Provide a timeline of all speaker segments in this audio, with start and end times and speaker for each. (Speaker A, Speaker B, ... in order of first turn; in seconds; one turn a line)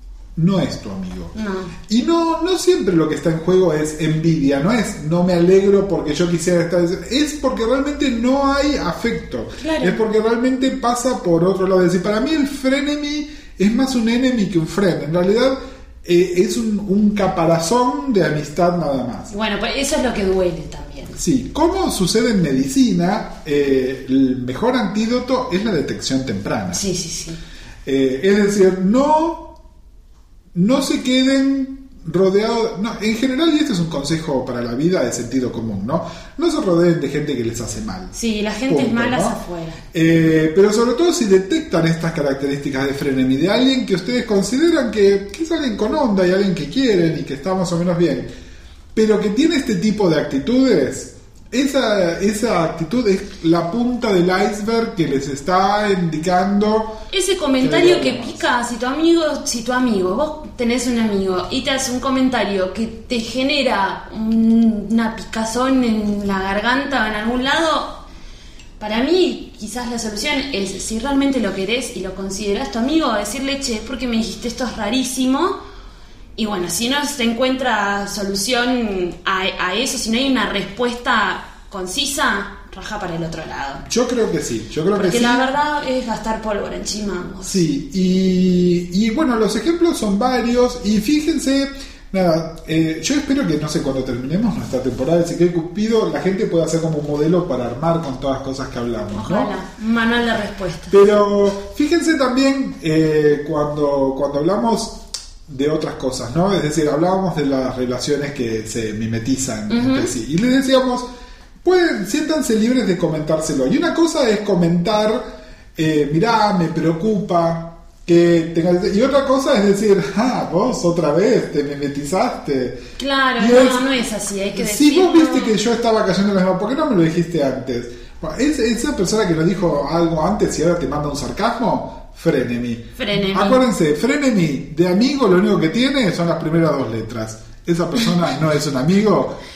Speaker A: 0.4-1.3
Speaker B: 1.4-1.7
Speaker A: 1.9-19.3
Speaker B: 9.6-10.0
Speaker B: 19.3-21.2
Speaker A: 21.2-26.8
Speaker B: 26.7-27.4
Speaker A: 27.9-29.6
Speaker A: 30.5-38.1
Speaker B: 38.1-39.8
Speaker A: 38.7-39.4
Speaker A: 39.9-48.3
Speaker A: 49.0-57.0
Speaker B: 57.1-68.0
Speaker A: 57.6-58.4
Speaker B: 68.8-75.6
Speaker B: 76.4-83.8
Speaker A: 83.9-85.5
Speaker B: 84.9-87.6
Speaker A: 87.4-99.5
Speaker B: 99.1-101.2
Speaker A: 100.9-111.1
Speaker B: 109.7-110.1
Speaker A: 111.6-122.8
Speaker B: 123.0-125.5
Speaker A: 123.4-123.9
Speaker A: 124.5-139.4
Speaker B: 133.0-133.6